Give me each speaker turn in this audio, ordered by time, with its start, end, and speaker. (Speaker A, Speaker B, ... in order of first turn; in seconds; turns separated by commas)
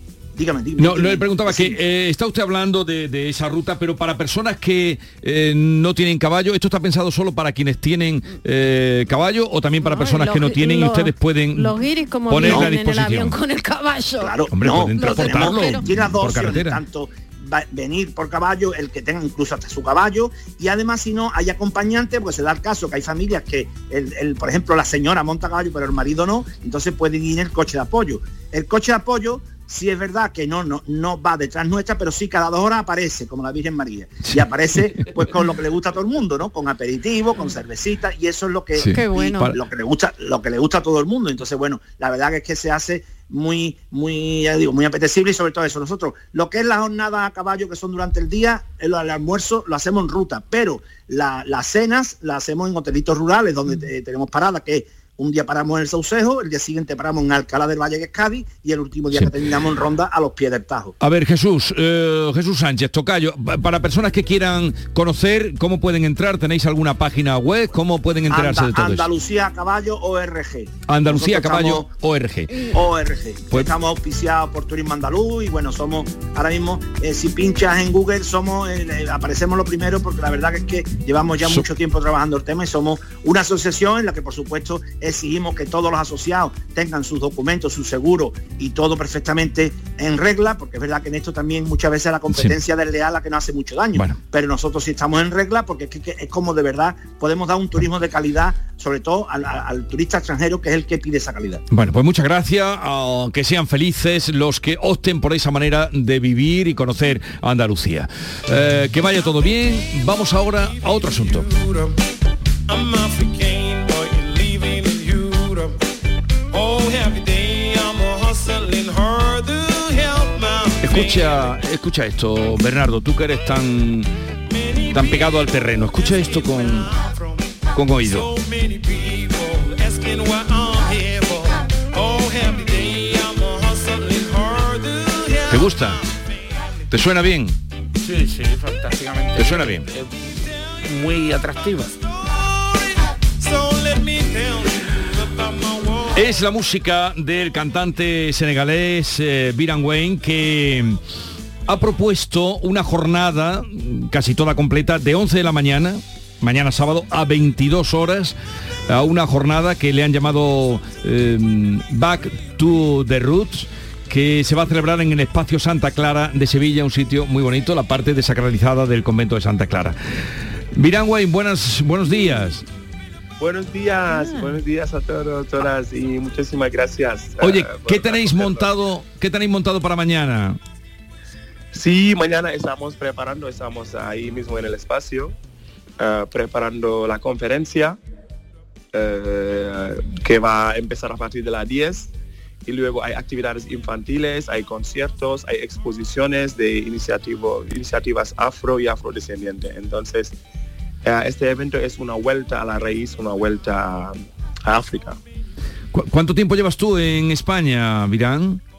Speaker A: 0.3-1.8, Speaker B: 0.8-11.7, Speaker C: 9.8-15.8, Speaker B: 12.3-13.3, Speaker A: 12.4-12.7, Speaker A: 14.2-60.9, Speaker B: 14.5-16.8, Speaker B: 38.8-39.6, Speaker C: 38.8-39.5, Speaker B: 61.0-69.1, Speaker A: 68.3-71.8, Speaker B: 70.9-72.7, Speaker A: 72.7-101.6, Speaker B: 101.7-111.5, Speaker D: 110.6-112.0, Speaker D: 112.7-115.8, Speaker D: 116.5-121.4, Speaker B: 120.8-124.1, Speaker D: 124.5-136.0, Speaker B: 124.9-126.9, Speaker B: 127.7-128.3, Speaker B: 135.5-136.0, Speaker B: 136.9-137.5, Speaker E: 138.0-141.9, Speaker B: 139.4-139.9, Speaker D: 142.2-146.3, Speaker B: 146.1-151.0, Speaker B: 151.7-158.3, Speaker B: 158.9-169.9, Speaker B: 170.7-172.6, Speaker F: 173.4-178.6, Speaker C: 174.2-174.6, Speaker B: 177.4-180.6, Speaker F: 181.7-185.3, Speaker F: 186.0-188.0, Speaker F: 188.9-192.1, Speaker F: 192.6-200.3, Speaker F: 201.0-205.2, Speaker B: 205.9-208.6